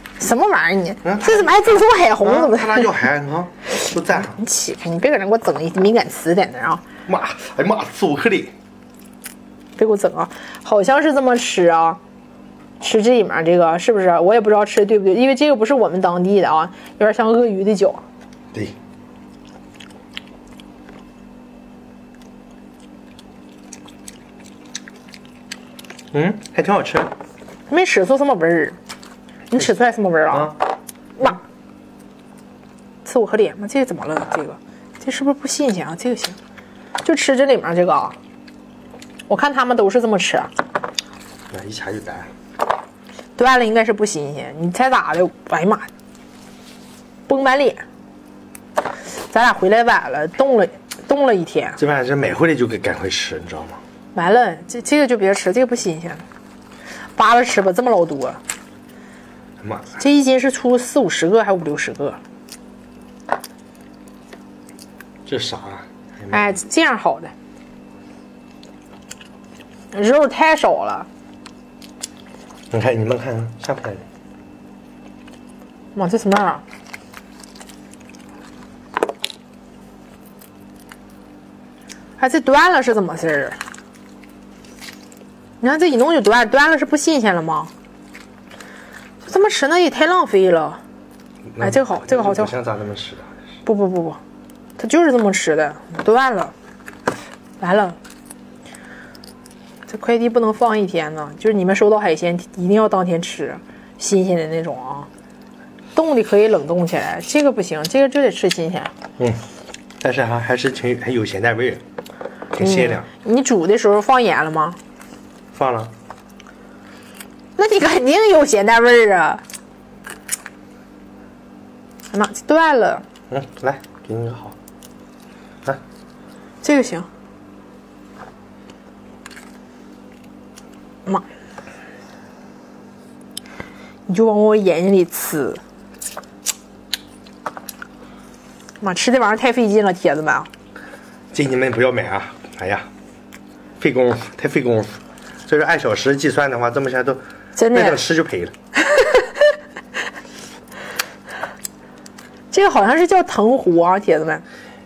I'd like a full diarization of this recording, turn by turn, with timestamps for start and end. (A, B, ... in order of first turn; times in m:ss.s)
0:00.2-0:02.9 A
0:01.0-0:01.5 B
0:02.2-0:04.4 B
0:04.2-0:06.8 A
0:07.1-0:08.5 B
0:09.8-0:12.0 A
0:12.8-0:18.0 A
0:26.1-0:27.1 B
0:27.7-0:28.8 A
0:29.5-0:30.6 A
0:33.0-0:36.4 A
0:37.0-0:38.2 A
0:39.3-0:40.5 A
0:41.5-0:42.3 B
0:43.4-0:45.9 A
0:47.3-0:47.8 A
0:49.2-0:51.8 A
0:51.8-0:53.8 B
0:54.1-0:56.2 A
0:57.2-0:58.4 A
0:59.6-1:00.0 B
1:00.0-1:02.2 A
1:05.3-1:06.6 B
1:06.3-1:07.3 A
1:09.9-1:11.1 A
1:12.7-1:14.0 B
1:15.9-1:16.6 A
1:22.2-1:23.6 A
1:25.6-1:27.7 A
1:29.2-1:30.8 A
1:31.5-1:33.3 B
1:31.6-1:32.5 A
1:33.6-1:34.2 A
1:34.8-1:36.5 A
1:37.6-1:38.0 A
1:39.9-1:45.1 A
1:45.9-1:48.9 A
1:50.0-1:51.8 B
1:52.5-1:53.1 B
1:52.6-1:54.8 A
1:55.5-1:55.9 B
1:57.6-1:59.4 A
2:02.1-2:03.0 A
2:03.3-2:04.5 B
2:06.6-2:07.1 A
2:14.1-2:15.6 A
2:18.8-2:20.5 A
2:21.3-2:22.9 B
2:23.8-2:28.5 B
2:27.6-2:28.0 A
2:28.9-2:29.2 A
2:32.5-2:34.4 A